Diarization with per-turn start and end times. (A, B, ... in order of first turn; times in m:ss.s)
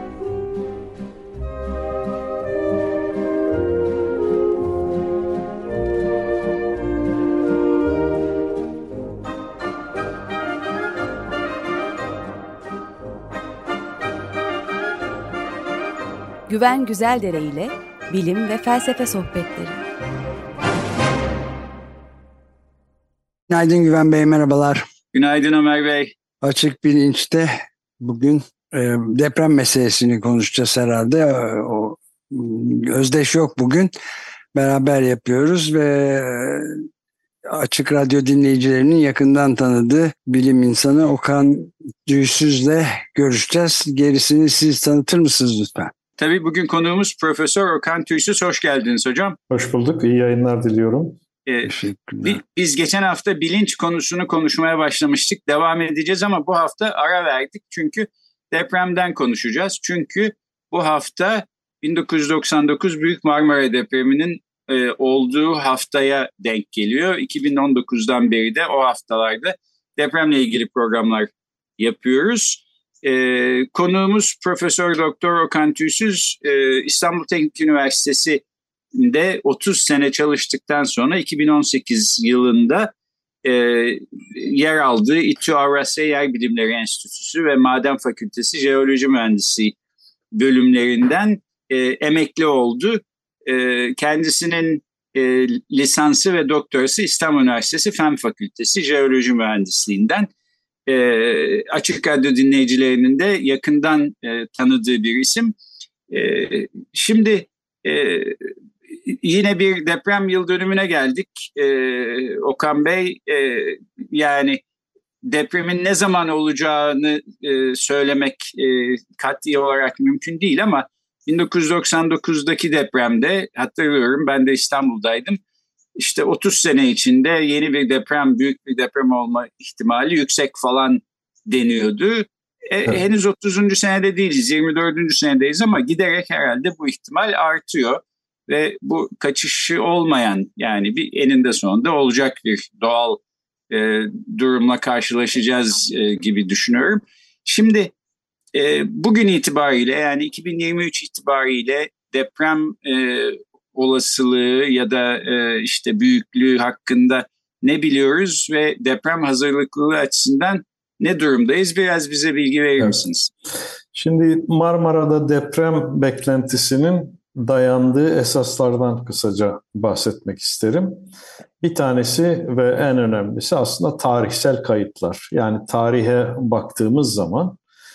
0:16.5-0:19.8 A
0:23.5-0:24.8 B
0:25.1-0:26.1 C
0:26.4-0:33.9 B
0:34.6-0:36.8 B
0:37.5-0:45.9 B
0:46.2-0:49.4 C
0:49.5-0:51.2 D
0:51.5-1:18.4 C
0:51.7-0:52.4 B
1:18.9-1:22.9 C
1:23.4-1:29.8 C
1:30.3-1:40.3 C
1:40.9-1:45.6 C
1:46.1-1:48.5 C
1:49.1-1:54.6 C
1:55.2-2:05.4 C
2:06.0-2:27.9 C
2:28.5-2:43.3 C
2:43.9-2:51.1 D
2:51.6-2:57.6 D